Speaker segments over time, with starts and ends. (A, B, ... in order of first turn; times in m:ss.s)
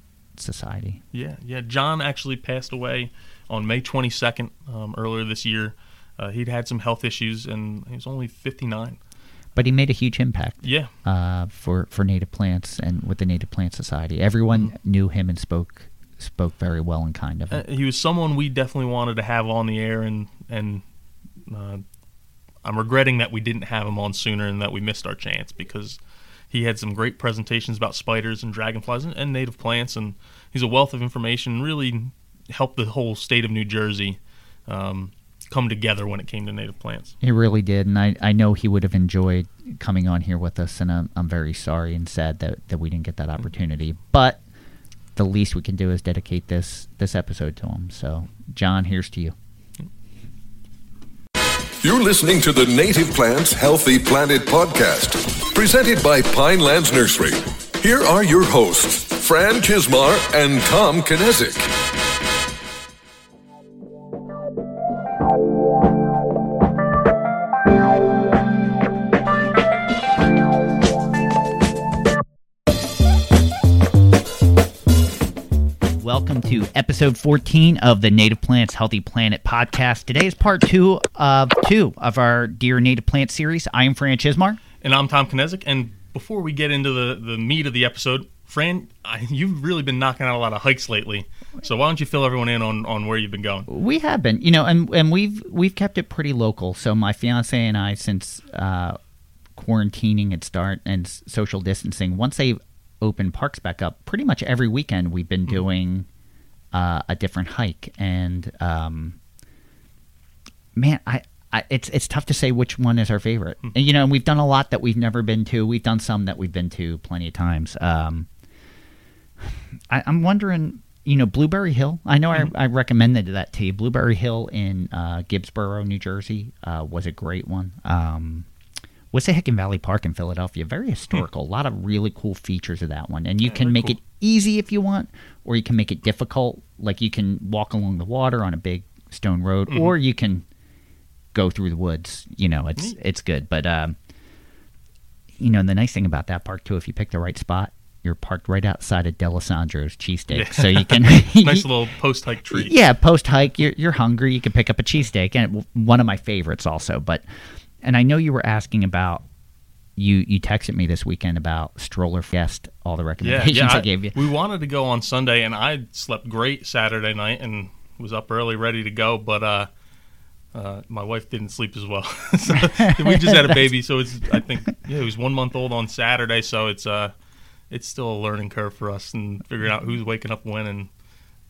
0:00.4-0:01.0 A
0:01.1-0:09.0 B
0:09.6-0:17.6 A
0:10.6-0:10.9 B
0:17.5-0:20.8 B
0:21.5-0:21.8 B
0:22.6-0:26.0 B
0:26.5-0:37.1 B
0:37.2-0:44.4 A
0:45.2-0:49.4 A
0:51.8-1:01.7 C
1:16.0-1:24.6 A
1:24.8-1:33.7 B
1:33.7-1:39.0 A
1:39.6-1:46.1 A
1:46.7-1:49.2 A
1:50.8-1:58.3 A
1:59.9-2:08.5 A
2:09.1-2:20.4 A
2:13.5-2:14.0 B
2:21.3-2:24.0 A
2:25.4-2:31.7 A
2:30.3-2:32.8 B
2:32.5-2:37.2 A
2:37.8-2:39.2 A
2:40.0-2:44.2 A
2:43.2-2:49.7 B
2:50.5-2:57.1 B
2:52.6-2:53.6 A
2:57.7-3:00.9 B